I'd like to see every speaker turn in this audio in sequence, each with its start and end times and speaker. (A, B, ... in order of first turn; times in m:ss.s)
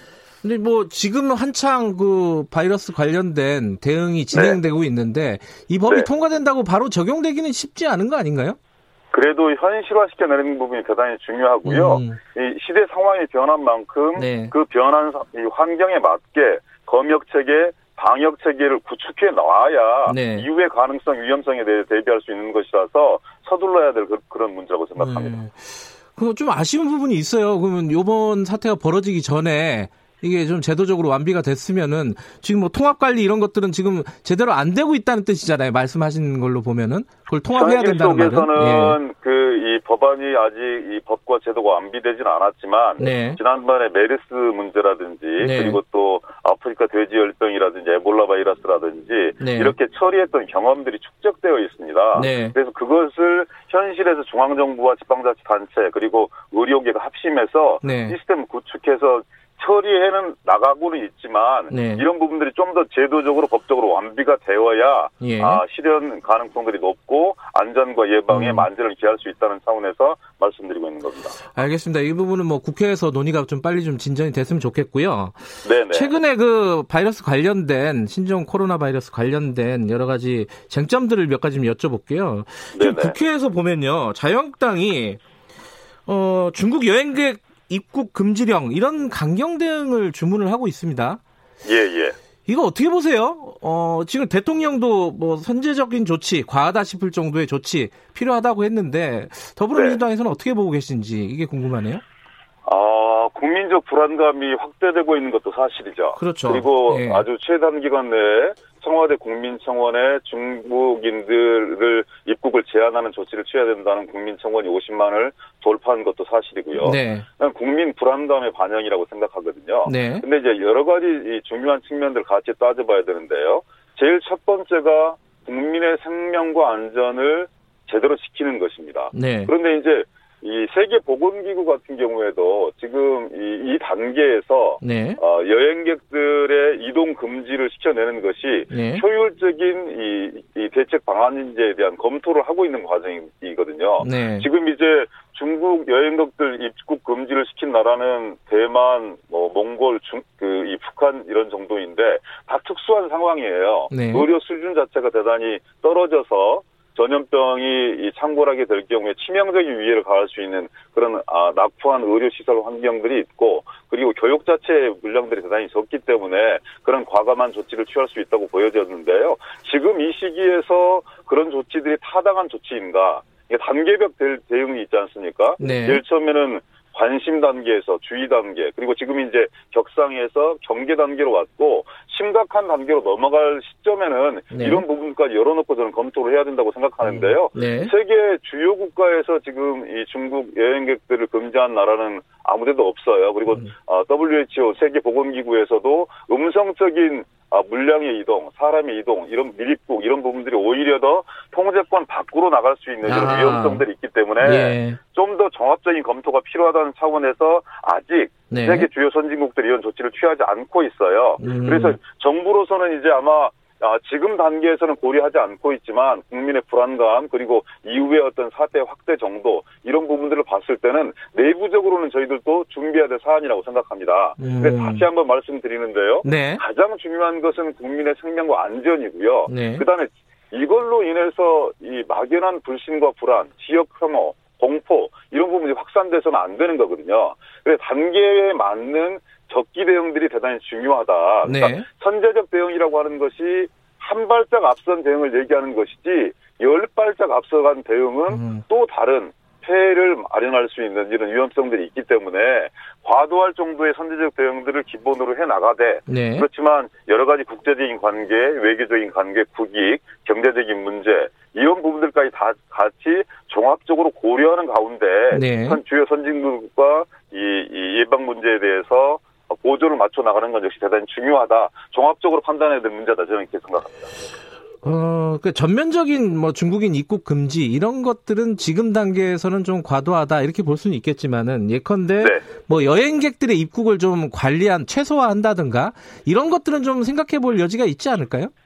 0:00.4-0:08.6 A
0:04.3-0:04.6 B
0:09.1-0:25.4 B
0:11.6-0:12.2 A
0:14.2-0:14.5 A
0:20.1-0:20.5 A
0:25.0-0:39.0 A
0:37.5-1:11.4 B
0:43.0-0:43.4 A
0:45.4-0:45.8 A
0:49.4-0:49.7 A
0:52.2-0:52.6 A
0:57.8-0:58.2 A
1:01.7-1:02.0 A
1:05.2-1:05.6 A
1:08.3-1:08.7 A
1:11.6-1:15.4 A
1:15.6-1:16.1 B
1:15.9-1:25.2 A
1:22.7-1:23.2 B
1:26.1-1:31.2 A
1:31.6-1:32.2 B
1:32.5-1:42.0 A
1:39.7-1:40.0 B
1:42.6-4:34.1 B
1:46.2-1:47.2 A
1:56.8-1:57.2 A
1:59.9-2:00.3 A
2:09.1-2:09.5 A
2:14.8-2:15.2 A
2:18.7-2:19.0 A
2:24.0-2:24.5 A
2:33.9-2:34.3 A
2:55.6-2:56.0 A
3:04.5-3:04.8 A
3:07.0-3:07.9 A
3:23.0-3:23.8 A
3:24.4-3:25.0 A
3:28.5-3:28.9 A
3:31.4-3:32.0 A
3:44.4-3:45.1 A
3:46.2-3:46.6 A
3:49.5-3:49.8 A
4:01.4-4:01.9 A
4:08.3-4:08.6 A
4:16.1-4:16.5 A
4:25.3-4:25.8 A
4:34.8-4:48.5 A
4:42.2-4:42.4 B